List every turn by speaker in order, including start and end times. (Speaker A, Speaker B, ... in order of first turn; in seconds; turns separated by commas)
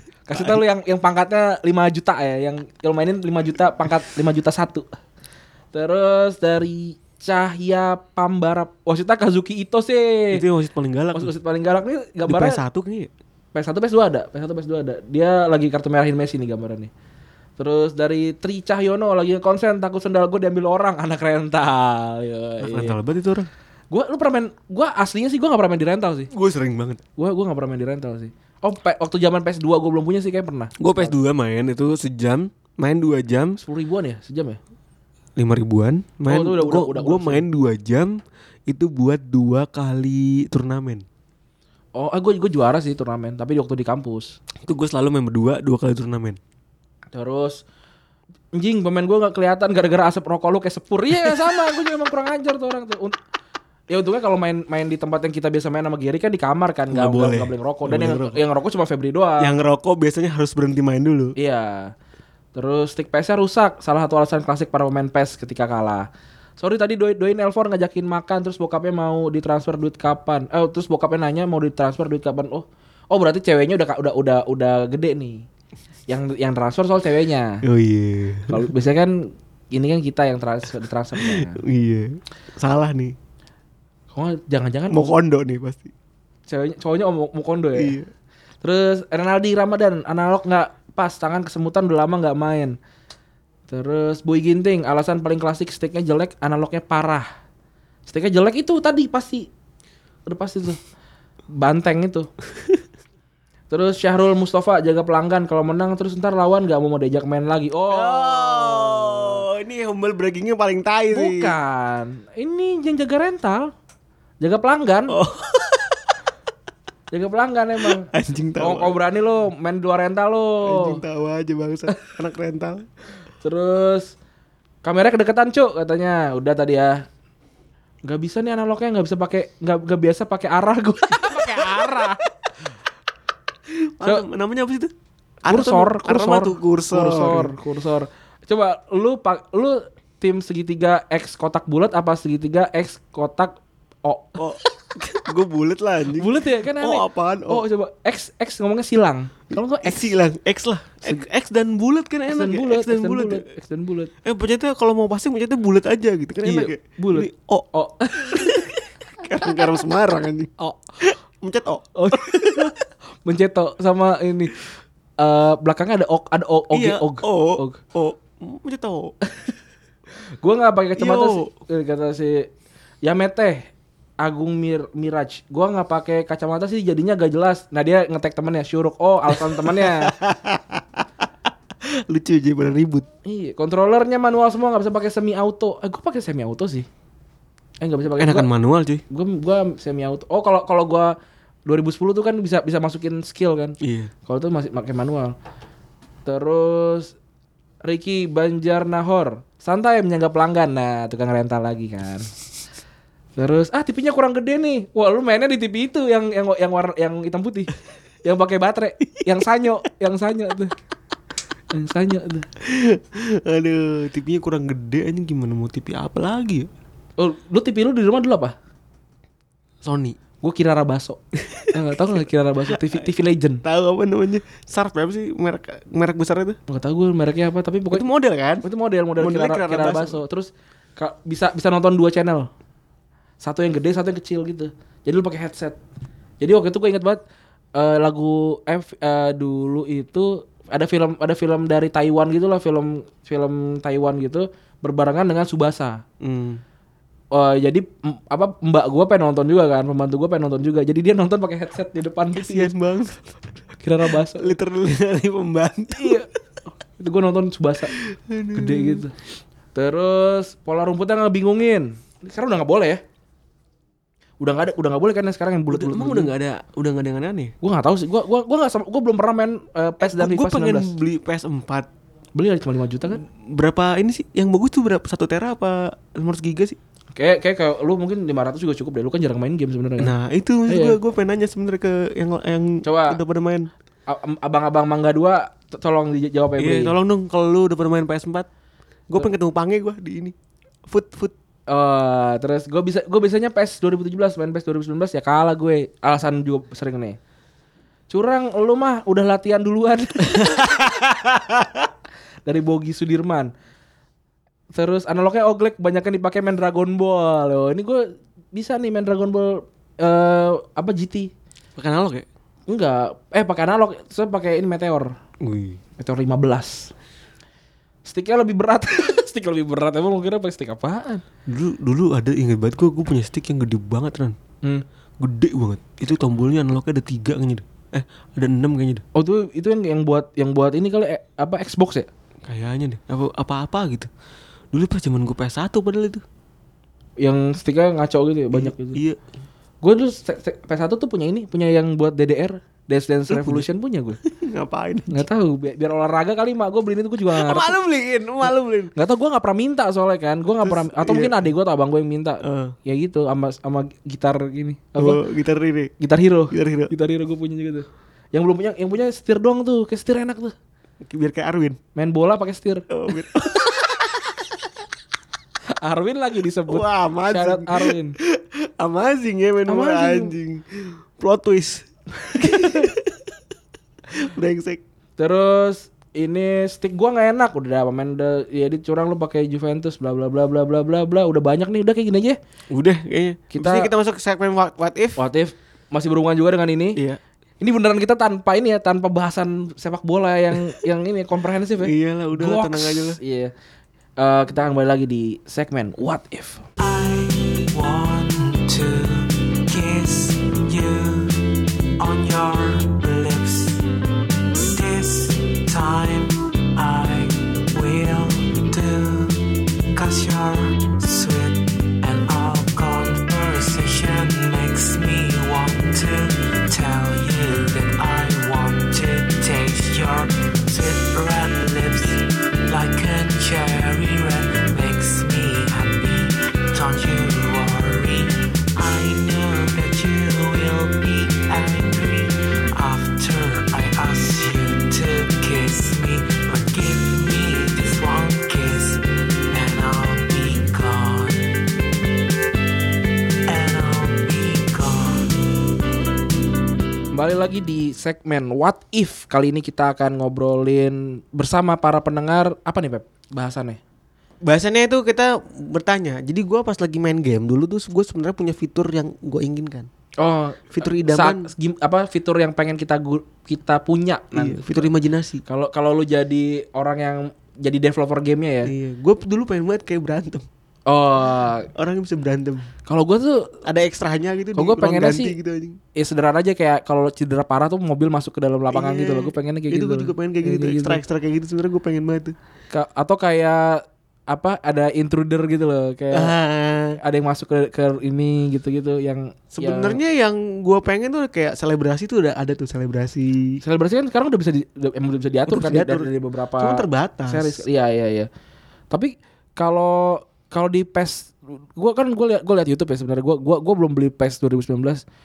Speaker A: 0.3-4.9, Speaker B: 0.3-0.6, Speaker A: 5.7-10.4, Speaker B: 10.3-11.3, Speaker A: 11.1-12.6, Speaker B: 12.2-13.1, Speaker A: 13.5-16.9, Speaker A: 17.6-23.0, Speaker B: 22.6-23.5, Speaker A: 23.9-26.3, Speaker B: 26.3-27.0, Speaker A: 27.2-31.1, Speaker B: 30.8-33.6, Speaker A: 33.6-34.6, Speaker B: 35.4-41.0, Speaker A: 36.3-37.4, Speaker A: 42.0-44.4, Speaker B: 44.6-46.4, Speaker A: 47.1-47.6, Speaker A: 48.5-53.2, Speaker A: 53.9-59.5, Speaker B: 56.9-58.4, Speaker B: 59.4-61.3, Speaker A: 61.4-61.9, Speaker A: 62.5-66.1, Speaker A: 66.6-75.4, Speaker A: 76.1-77.6, Speaker B: 77.6-78.7, Speaker A: 78.5-81.6, Speaker B: 81.2-83.1, Speaker A: 84.1-85.1, Speaker B: 84.9-85.9, Speaker A: 86.5-88.0, Speaker B: 87.8-88.1, Speaker A: 88.6-92.8, Speaker A: 93.7-97.3, Speaker A: 98.1-99.5, Speaker A: 100.3-100.8, Speaker A: 101.6-102.3, Speaker A: 103.7-109.4, Speaker B: 107.9-111.5, Speaker A: 111.1-113.7, Speaker A: 114.4-115.1, Speaker B: 115.1-116.1, Speaker A: 117.1-121.0, Speaker B: 118.0-119.0, Speaker B: 120.6-122.8, Speaker A: 123.4-124.1, Speaker A: 124.8-127.0, Speaker A: 128.0-132.2, Speaker B: 131.2-131.8, Speaker B: 133.7-134.9, Speaker B: 135.4-137.5, Speaker A: 135.5-144.4, Speaker B: 144.4-147.6, Speaker A: 146.1-150.2, Speaker B: 149.5-153.4, Speaker A: 152.3-154.1, Speaker B: 154.2-157.7, Speaker A: 156.4-158.6, Speaker B: 159.2-160.5, Speaker B: 161.0-162.4, Speaker A: 162.0-164.5, Speaker A: 165.2-167.8, Speaker B: 166.7-169.1, Speaker A: 170.4-172.5, Speaker B: 171.0-171.5, Speaker A: 173.0-173.7, Speaker A: 174.2-180.1, Speaker B: 179.4-181.0, Speaker B: 182.1-183.1, Speaker A: 183.2-186.9, Speaker A: 187.8-188.5, Speaker B: 188.2-189.0, Speaker A: 189.1-191.1, Speaker A: 191.7-193.8, Speaker B: 193.8-194.1, Speaker A: 194.3-195.3, Speaker A: 196.2-197.1, Speaker A: 197.8-202.3, Speaker A: 203.4-207.7, Speaker A: 208.2-210.7, Speaker A: 211.7-212.5, Speaker B: 212.6-216.7, Speaker A: 217.2-218.5, Speaker B: 219.8-220.2, Speaker A: 220.4-221.2, Speaker B: 221.4-223.1, Speaker A: 221.7-223.6, Speaker B: 223.6-226.6, Speaker A: 226.7-228.1, Speaker B: 227.9-228.6, Speaker A: 228.6-232.5, Speaker B: 229.2-230.2, Speaker A: 233.4-235.8, Speaker A: 236.4-237.2, Speaker A: 237.7-246.0, Speaker B: 246.2-246.6, Speaker A: 247.3-252.7, Speaker B: 252.3-253.5, Speaker A: 253.8-254.5, Speaker B: 254.2-256.2, Speaker A: 255.9-256.3, Speaker A: 257.0-257.9, Speaker B: 258.0-259.0, Speaker A: 258.5-259.1, Speaker A: 259.7-263.0, Speaker A: 264.4-266.3, Speaker B: 265.7-267.5, Speaker A: 267.6-270.9, Speaker B: 270.0-271.9, Speaker A: 272.4-273.2, Speaker B: 273.1-276.8, Speaker A: 277.1-280.1, Speaker B: 280.0-283.7, Speaker A: 280.7-281.0, Speaker A: 282.8-283.2, Speaker A: 284.1-286.9, Speaker B: 286.6-288.5, Speaker B: 289.1-290.3, Speaker B: 290.9-291.3, Speaker A: 291.7-297.2, Speaker A: 298.1-300.6, Speaker B: 300.3-301.8, Speaker A: 302.4-303.5, Speaker A: 304.7-311.3, Speaker B: 311.8-312.2, Speaker A: 312.7-315.1, Speaker B: 315.4-315.8, Speaker A: 316.0-316.9, Speaker A: 318.0-321.2, Speaker B: 321.5-324.4, Speaker B: 325.2-329.0, Speaker A: 329.1-332.1, Speaker B: 332.4-334.1, Speaker B: 334.7-336.2, Speaker A: 337.2-339.0, Speaker B: 338.5-339.2, Speaker A: 339.8-344.2, Speaker B: 343.3-343.7, Speaker B: 344.2-345.2, Speaker A: 345.1-347.8, Speaker B: 347.2-348.9, Speaker A: 348.4-355.2, Speaker B: 350.6-351.5, Speaker B: 352.4-352.7, Speaker B: 355.0-355.9, Speaker A: 356.0-360.5, Speaker B: 356.5-356.9, Speaker B: 361.0-361.8, Speaker A: 361.9-362.8, Speaker B: 362.9-364.2, Speaker A: 365.8-368.1, Speaker B: 366.7-373.3, Speaker A: 369.7-370.3, Speaker A: 372.2-372.8, Speaker B: 374.2-374.8, Speaker A: 375.2-382.4, Speaker B: 382.7-385.2, Speaker A: 383.5-383.9, Speaker A: 385.2-387.0, Speaker A: 387.6-393.5, Speaker B: 391.8-393.2, Speaker A: 394.2-396.6, Speaker C: 396.8-401.4, Speaker C: 402.0-403.8, Speaker C: 404.7-441.5, Speaker C: 443.5-445.6, Speaker A: 447.1-453.8, Speaker B: 454.4-459.9, Speaker A: 460.2-464.9, Speaker B: 460.7-461.5, Speaker B: 464.3-465.4, Speaker A: 465.4-468.7, Speaker B: 468.6-470.4, Speaker A: 470.9-471.7, Speaker B: 471.7-472.7, Speaker A: 472.9-473.6, Speaker B: 473.6-475.8, Speaker A: 474.6-475.4, Speaker A: 475.9-481.0, Speaker B: 478.7-482.3, Speaker A: 482.7-486.3, Speaker B: 486.1-487.0, Speaker A: 487.0-490.0, Speaker B: 489.5-493.6, Speaker A: 493.6-498.3, Speaker B: 495.5-497.6, Speaker A: 498.9-505.0